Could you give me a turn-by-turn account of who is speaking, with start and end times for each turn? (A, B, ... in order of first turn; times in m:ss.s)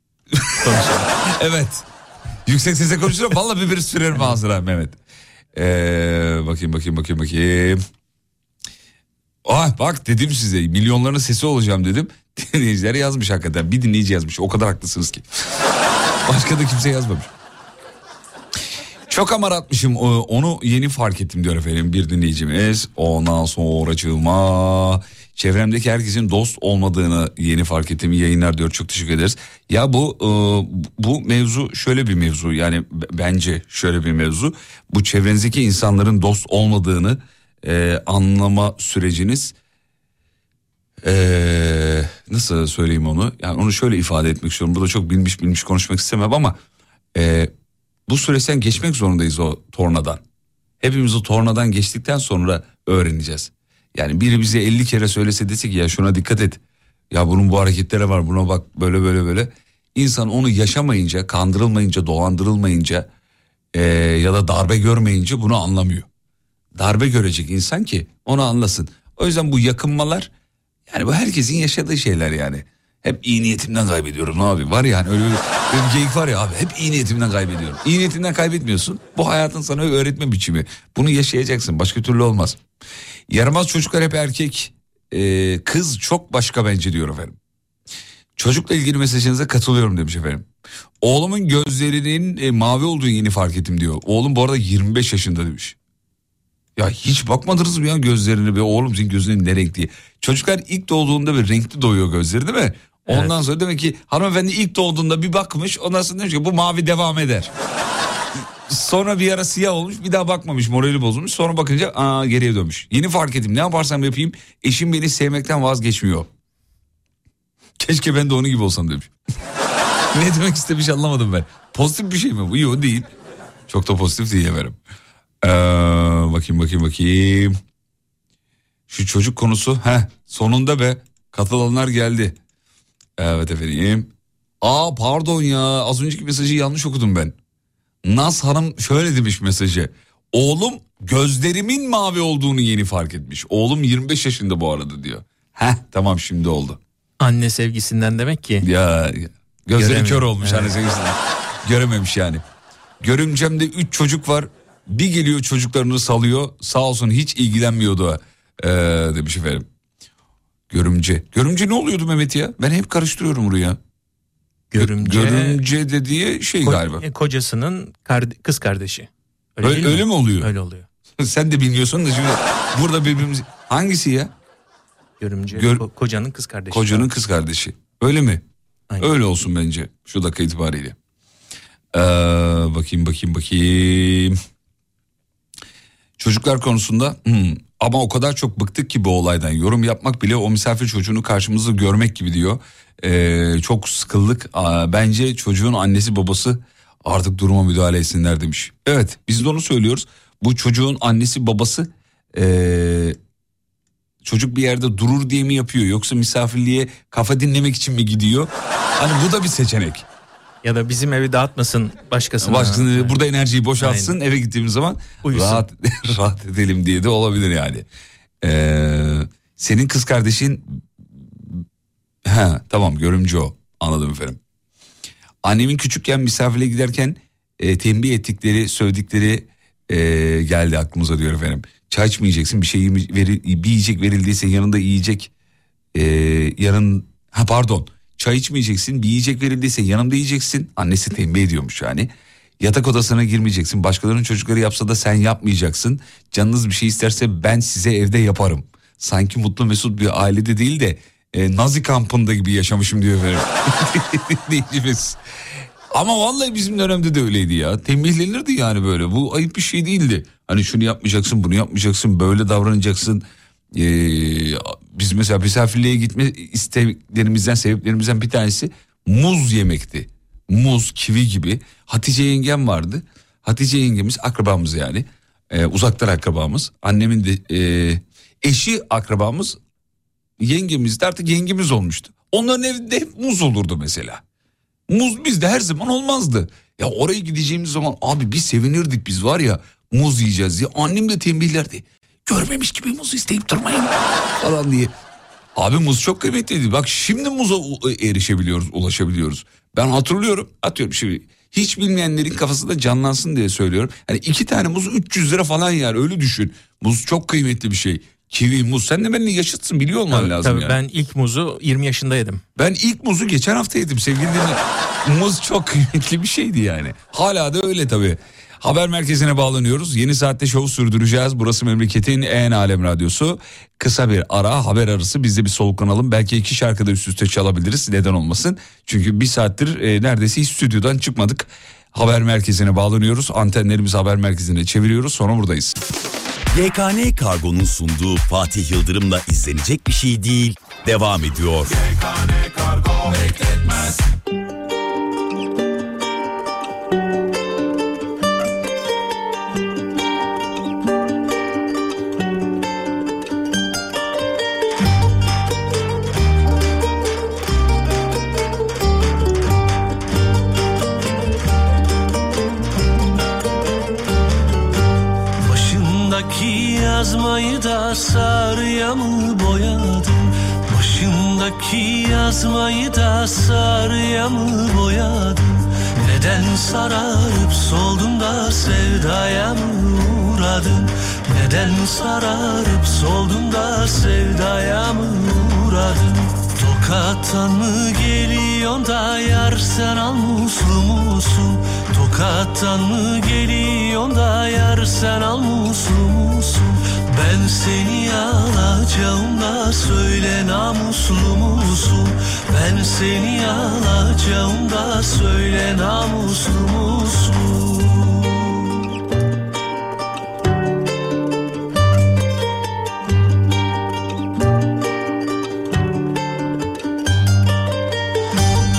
0:00.4-0:01.8 A
0:00.6-0:01.2 B
0:02.4-0:05.0 A
0:05.5-0:07.8 A
0:09.4-0:15.2 A
0:16.2-0:17.3 A
0:19.1-0:39.5 A
0:41.0-0:46.6 A
0:47.1-0:47.5 A
0:48.1-0:50.2 A
0:50.8-0:56.6 A
0:57.1-1:03.1 A
1:03.7-1:06.1 A
1:06.7-1:10.3 A
1:10.9-1:22.6 A
1:23.3-1:27.4 A
1:28.4-1:30.4 A
1:31.0-1:35.8 A
1:36.8-1:47.5 A
1:43.1-1:43.4 B
1:48.3-1:56.3 A
1:57.8-1:59.1 A
2:00.1-2:03.1 A
2:03.7-2:04.8 A
2:05.4-2:07.6 A
2:08.9-2:12.4 A
2:13.2-2:14.1 A
2:14.6-2:17.3 A
2:18.0-2:26.8 A
2:27.2-2:28.7 B
2:28.6-2:32.4 A
2:29.8-2:30.8 B
2:33.0-2:39.6 A
2:40.7-2:43.8 A
2:44.7-2:45.6 B
2:44.8-2:47.0 A
2:46.6-2:50.9 B
2:49.6-2:50.5 A
2:51.2-2:54.3 A
2:55.2-2:57.1 B
2:55.5-2:55.8 A
2:56.7-2:58.4 A
2:59.0-3:01.0 A
3:01.9-3:04.4 A
3:06.2-3:23.2 A
3:24.2-3:30.0 A
3:30.6-3:33.2 B
3:32.4-3:37.9 A
3:33.8-3:34.2 B
3:35.2-3:35.6 B
3:38.4-3:41.6 A
3:42.2-3:44.4 A
3:45.4-3:55.3 A
3:55.9-4:02.1 A
4:02.6-4:15.2 A
4:15.9-4:39.6 A
4:40.4-4:44.2 A
4:44.9-4:54.9 A
4:55.5-5:10.8 A
5:10.1-5:12.4 B
5:12.6-5:35.8 A
5:36.5-5:41.8 C
6:05.4-6:48.5 D